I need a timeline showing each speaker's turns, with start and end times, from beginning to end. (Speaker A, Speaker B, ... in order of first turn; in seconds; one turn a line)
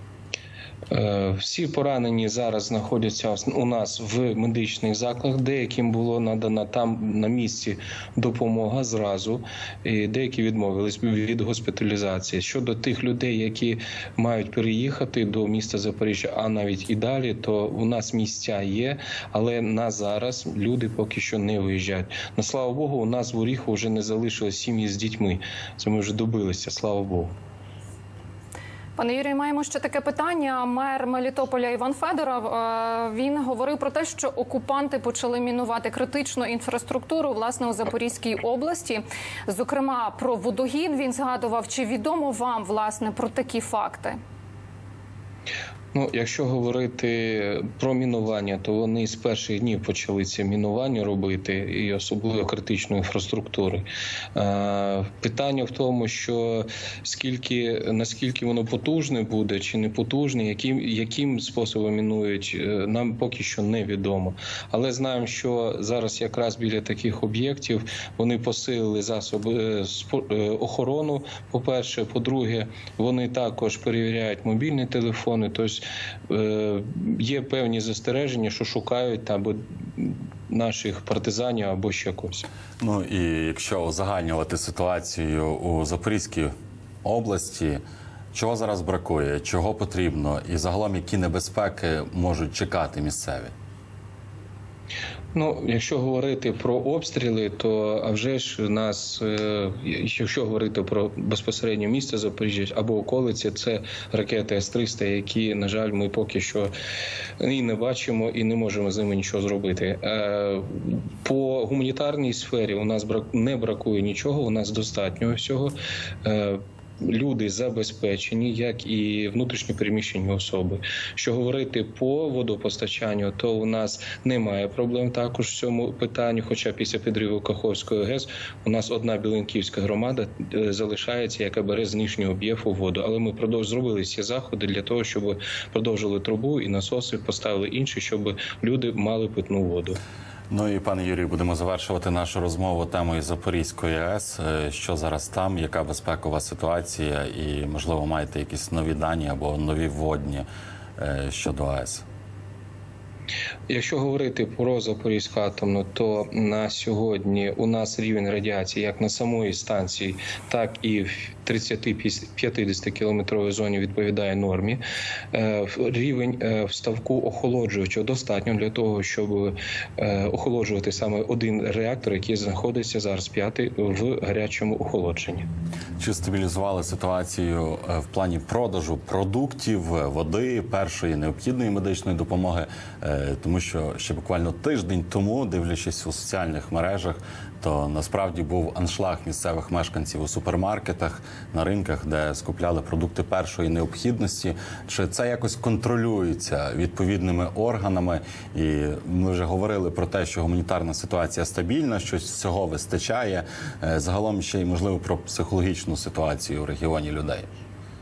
Speaker A: 0.9-27.3
Speaker B: 29.0-44.2
Speaker A: 45.9-82.5
Speaker C: 82.8-86.5
Speaker C: 87.0-87.8
Speaker C: 88.3-93.5
Speaker A: 95.3-106.7
Speaker A: 107.4-140.0
Speaker C: 140.5-150.5
Speaker C: 151.0-152.1
Speaker A: 153.7-164.8
Speaker A: 165.3-175.5
Speaker C: 176.0-207.5